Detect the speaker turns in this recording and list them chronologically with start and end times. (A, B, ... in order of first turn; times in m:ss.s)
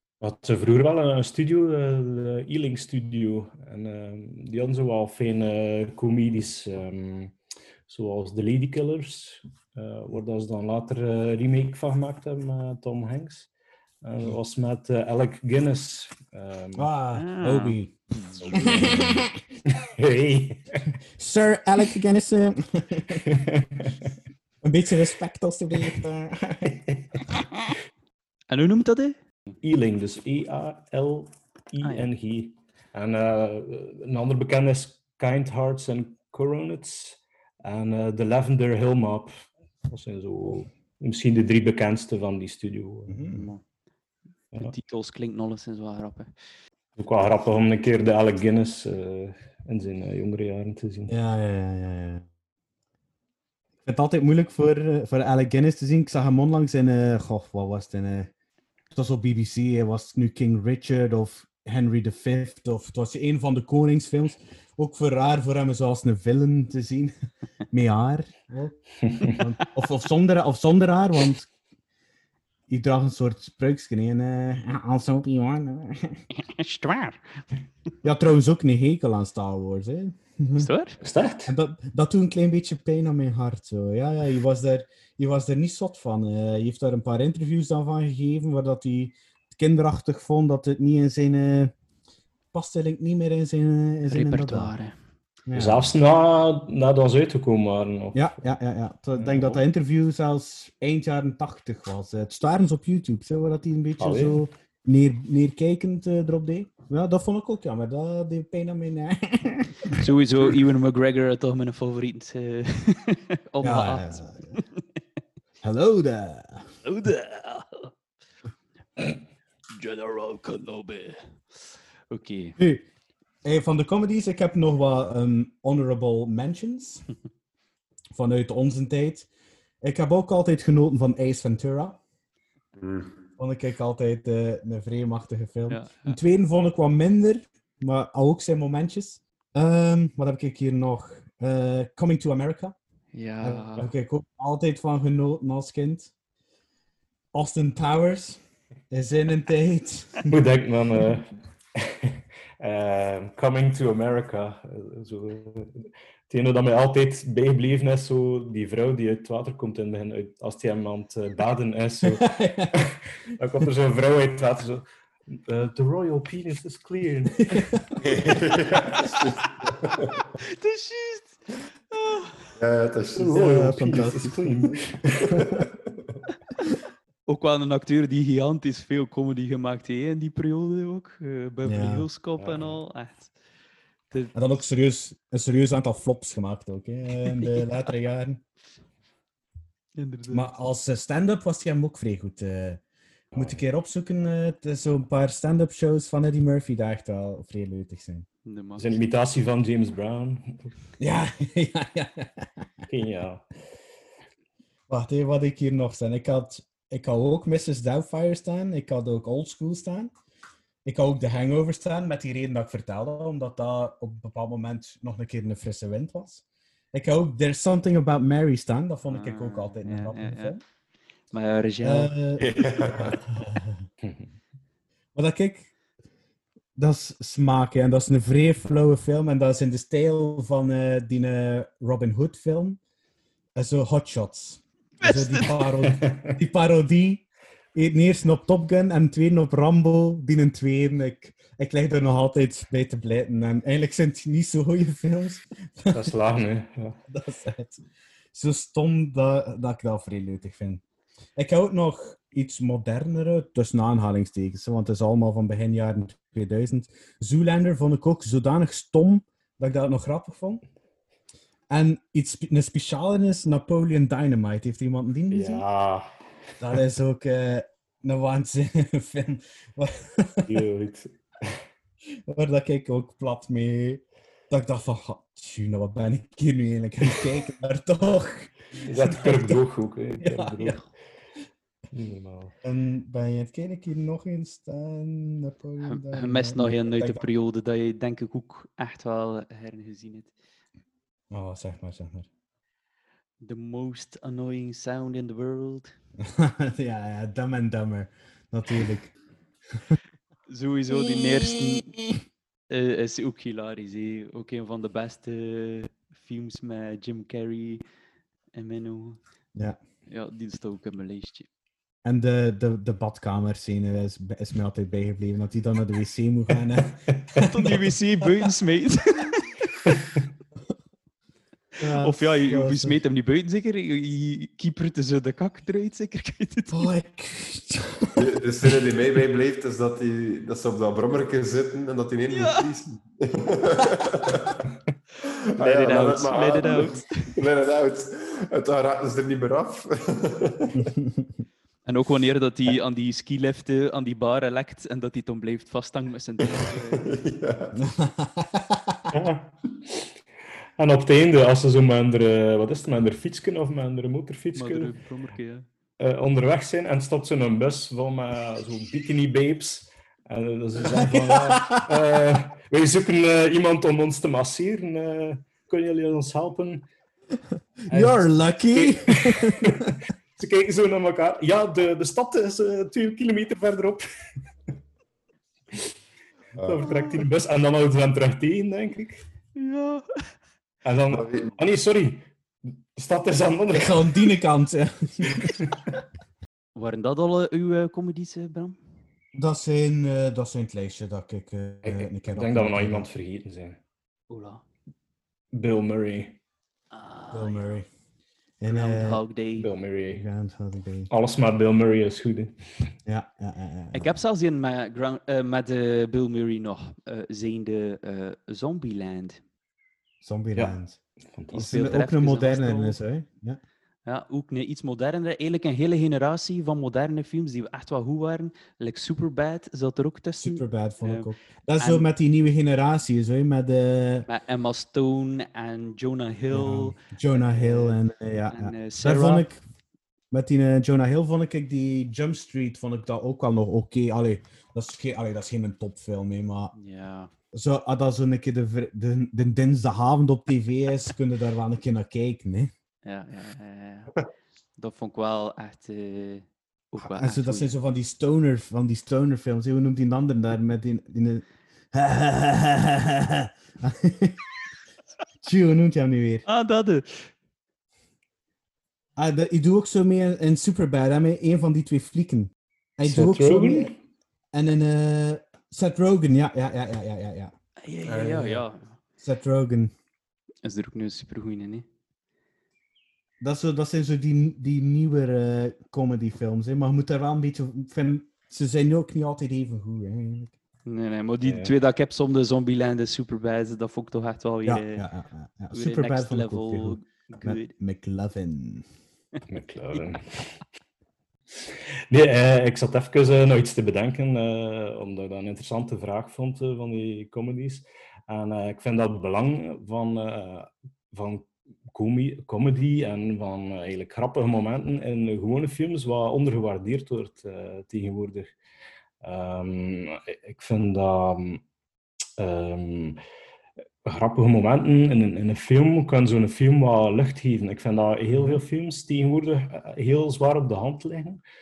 0:00.2-0:07.4 A
0:07.9-0:13.5 A
0:14.0-0:16.9 A
0:16.8-0:17.9 B
0:17.1-0:18.5 C
0:18.4-0:20.9 A
0:18.5-0:19.4 B
0:21.2-0:23.3 B
0:23.2-0:24.0 A
0:24.6-0:26.8 B
0:26.9-0:27.2 A
0:28.5-0:29.2 C
0:29.6-0:43.2 A
0:31.8-0:32.1 C
0:43.1-0:43.5 B
0:43.3-0:43.6 C
0:44.6-0:46.3 C
0:47.0-0:51.1 A
0:51.1-0:52.2 B
0:53.8-0:58.3 B
0:58.9-1:07.1 B
1:07.7-1:11.5 B
1:09.0-1:09.3 A
1:12.7-1:16.2 B
1:16.3-1:17.2 C
1:18.0-1:20.7 B
1:20.6-1:21.0 C
1:21.0-1:21.5 A
1:21.4-1:31.7 B
1:32.5-1:34.7 B
1:34.1-1:34.9 C
1:35.5-1:35.8 B
1:35.5-1:38.3 A
1:38.1-1:50.0 B
1:39.2-1:39.6 A
1:44.0-1:44.4 A
1:49.9-1:54.8 C
1:53.6-1:54.5 B
1:55.6-1:56.7 B
1:56.8-1:57.9 C
1:59.7-2:02.6 C
2:02.6-2:02.8 B
2:03.4-2:07.1 B
2:08.1-2:09.3 B
2:09.8-2:12.0 B
2:12.8-2:13.2 D
2:13.4-2:22.7 B
2:15.7-2:16.2 C
2:23.1-2:23.9 C
2:23.4-2:26.1 B
2:27.3-2:30.3 B
2:30.3-2:47.7 A
2:42.0-2:42.8 B
2:47.5-2:47.9 B
2:48.0-2:50.1 D
2:50.4-2:51.4 C
2:51.9-2:52.4 C
2:52.6-2:53.4 D
2:53.2-2:55.0 A
2:53.2-2:55.6 B
2:55.1-2:55.7 D
2:57.3-3:03.3 C
3:01.6-3:02.0 B
3:02.4-3:02.8 A
3:04.1-3:04.4 C
3:04.3-3:08.4 B
3:07.4-3:07.7 C
3:09.9-3:10.5 C
3:10.3-3:12.8 B
3:13.3-3:13.6 A
3:13.3-3:18.2 B
3:18.4-3:19.0 C
3:18.8-3:20.7 A
3:21.0-3:22.6 B
3:22.9-3:23.4 A
3:24.9-3:30.1 B
3:30.8-3:40.6 B
3:39.0-3:40.6 C
3:41.3-3:42.2 C
3:41.8-3:43.8 B
3:42.4-3:43.2 D
3:45.1-3:45.7 B
3:46.8-3:52.8 B
3:53.6-4:06.0 B
3:55.0-3:55.6 C
3:55.9-3:56.3 A
4:05.9-4:07.0 A
4:07.1-4:07.8 B
4:08.3-4:10.8 B
4:11.4-4:20.6 B
4:21.7-4:25.6 B
4:25.3-4:26.1 A
4:26.6-4:30.6 B
4:30.4-4:31.6 A
4:32.3-4:39.6 B
4:38.8-4:40.8 A
4:40.2-4:40.8 B
4:41.9-4:42.5 A
4:42.6-4:47.2 B
4:45.8-4:50.3 C
4:51.3-4:52.3 B
4:53.4-4:55.9 C
4:56.2-4:59.1 B
5:00.5-5:01.9 C
5:01.1-5:02.1 B
5:02.7-5:07.8 C
5:08.5-5:09.2 C
5:10.1-5:11.5 C
5:12.0-5:17.4 B
5:17.4-5:19.4 C
5:21.8-5:23.0 B
5:21.8-5:26.8 C
5:26.7-5:28.4 B
5:28.2-5:34.6 D
5:32.3-5:32.6 C
5:35.2-5:40.9 D
5:35.6-5:37.4 C
5:40.7-5:41.3 B
5:41.8-5:47.0 C
5:46.4-5:47.9 D
5:47.8-5:49.1 B
5:49.1-5:50.1 A
5:50.8-5:54.9 A
5:54.6-5:55.6 C
5:56.0-6:06.8 A
6:00.9-6:01.8 B
6:07.9-6:09.9 B
6:07.9-6:08.2 C
6:08.7-6:14.0 A
6:16.6-6:17.0 D
6:16.6-6:19.2 A
6:19.6-6:20.2 C
6:20.8-6:24.2 A
6:21.1-6:21.5 D
6:23.7-6:25.5 B
6:26.7-6:28.8 C
6:29.3-6:33.1 B
6:31.8-6:33.8 A
6:34.3-6:34.6 C
6:35.5-6:36.4 A
6:36.9-6:37.8 C
6:37.3-6:37.9 B
6:38.6-6:39.2 B
6:38.7-6:39.7 C
6:39.6-6:40.2 A
6:40.1-6:41.1 B
6:41.1-6:42.6 A
6:43.0-6:44.1 B
6:43.9-6:49.4 C
6:50.2-6:51.0 B
6:51.3-6:51.7 A
6:51.5-6:53.0 C
6:51.5-6:53.6 B
6:54.0-7:02.1 C
7:00.4-7:04.2 B
7:04.3-7:09.5 C
7:06.5-7:09.6 B
7:10.3-7:16.7 B
7:16.7-7:17.3 C
7:17.5-7:22.7 B
7:23.0-7:24.1 C
7:24.8-7:27.7 C
7:27.0-7:34.4 B
7:35.4-7:36.4 B
7:36.4-7:37.3 C
7:39.2-7:43.9 B
7:43.0-7:44.0 A
7:44.5-7:47.5 B
7:47.8-7:49.0 C
7:48.0-7:48.6 D
7:49.2-7:49.9 B
7:50.6-7:51.8 C
7:53.4-8:00.5 B
8:00.8-8:05.0 C
8:01.4-8:01.7 A
8:04.6-8:08.8 B
8:05.7-8:07.7 C
8:09.5-8:10.6 A
8:12.1-8:28.5 A
8:29.2-8:31.6 A
8:32.4-8:33.2 A
8:34.0-8:41.4 A